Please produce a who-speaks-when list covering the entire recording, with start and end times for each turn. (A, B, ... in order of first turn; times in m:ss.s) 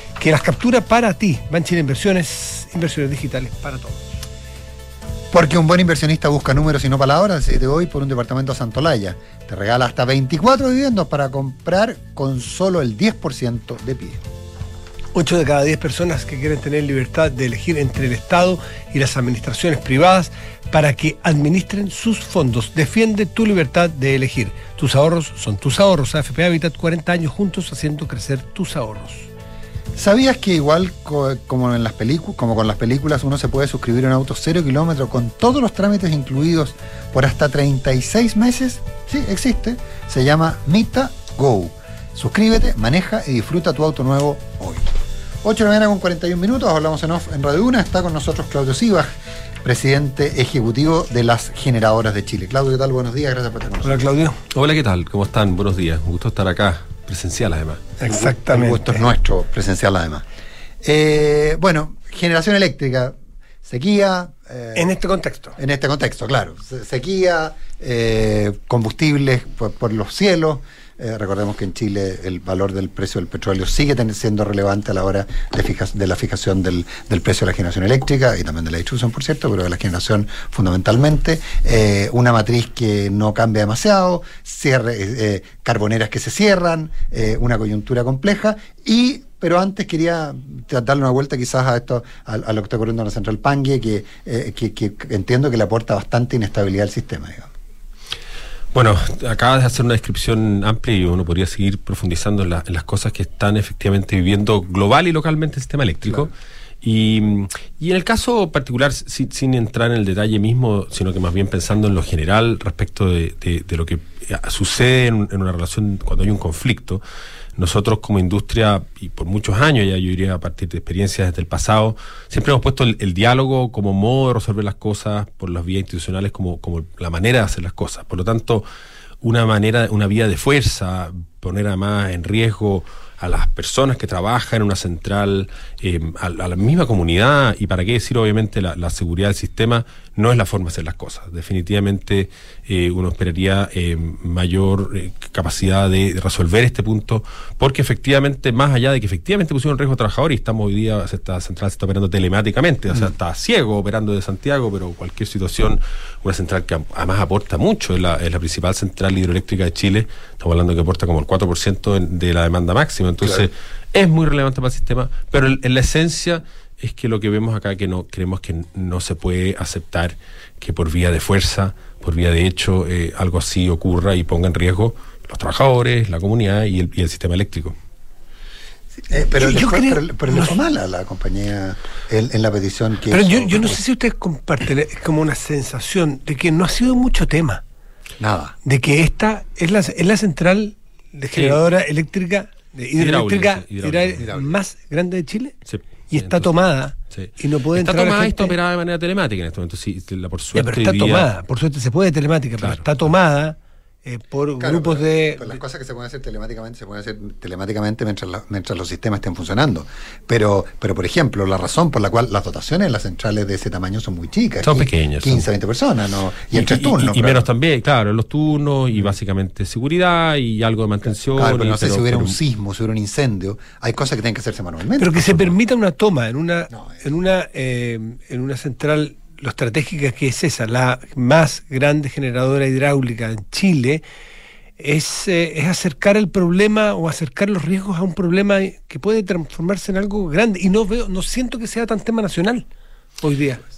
0:00.2-0:04.0 A
0:05.3-0:14.2 B
0:15.1-0:29.3 A
0:29.9-0:44.9 B
0:45.4-0:49.1 B
0:49.6-0:54.0 B
0:53.8-0:54.4 A
0:54.5-0:57.8 C
0:58.0-0:59.0 A
0:58.0-1:00.2 B
1:00.8-1:04.9 B
1:04.7-1:05.6 A
1:05.6-1:37.5 B
1:38.7-1:57.0 C
1:57.6-2:08.6 C
2:09.2-2:57.7 C
2:43.2-2:43.5 B
2:59.1-3:03.8 B
2:59.4-3:00.5 A
3:03.1-3:07.6 A
3:08.2-3:08.5 B
3:08.6-3:15.6 A
3:11.4-3:11.6 C
3:13.0-3:14.2 C
3:14.2-3:14.6 B
3:15.7-3:16.5 C
3:16.1-3:18.5 A
3:17.1-3:21.3 C
3:20.5-3:25.6 A
3:22.6-3:22.9 C
3:24.6-3:37.5 B
3:34.6-3:35.5 C
3:36.5-3:42.4 C
3:41.4-3:45.5 B
3:45.0-3:54.0 A
3:54.8-4:02.7 A
4:03.2-4:03.6 A